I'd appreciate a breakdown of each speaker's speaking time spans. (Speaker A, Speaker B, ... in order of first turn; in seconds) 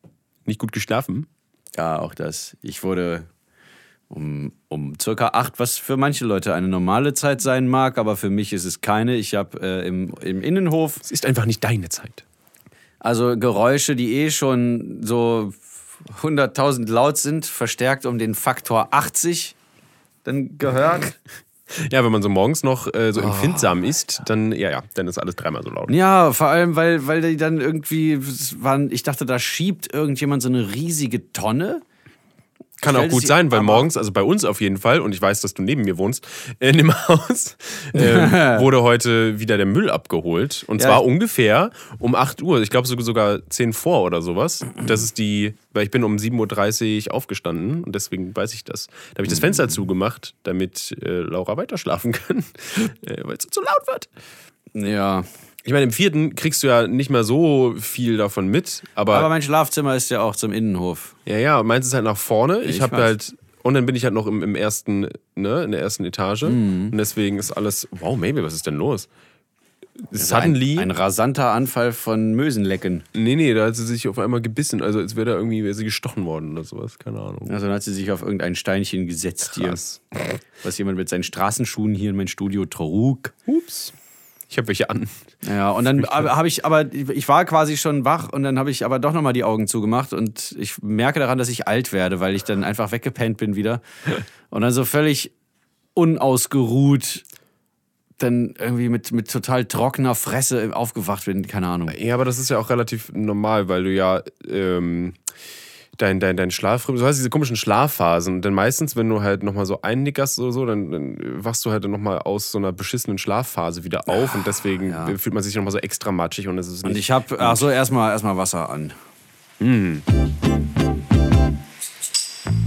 Speaker A: 0.5-1.3, 11.0-12.2, 21.7-25.9, 32.8-54.1, 55.6-59.3, 61.2-69.1, 70.1-70.9, 73.1-77.5, 79.5-80.0, 83.5-83.9, 84.5-85.2, 86.0-86.3, 101.9-105.2, 106.0-117.6, 119.6-120.0
Speaker B: 1.7-3.3, 4.1-11.0, 13.0-19.5, 20.2-21.2, 23.1-23.7, 25.9-31.8, 32.8-33.9, 37.9-38.6, 40.8-41.0, 54.7-55.3, 59.1-61.1, 62.6-63.1, 66.4-66.9, 70.1-73.0, 77.4-83.3, 85.4-93.8, 94.5-95.3, 95.9-97.2, 98.2-102.0, 114.8-115.2, 116.8-119.0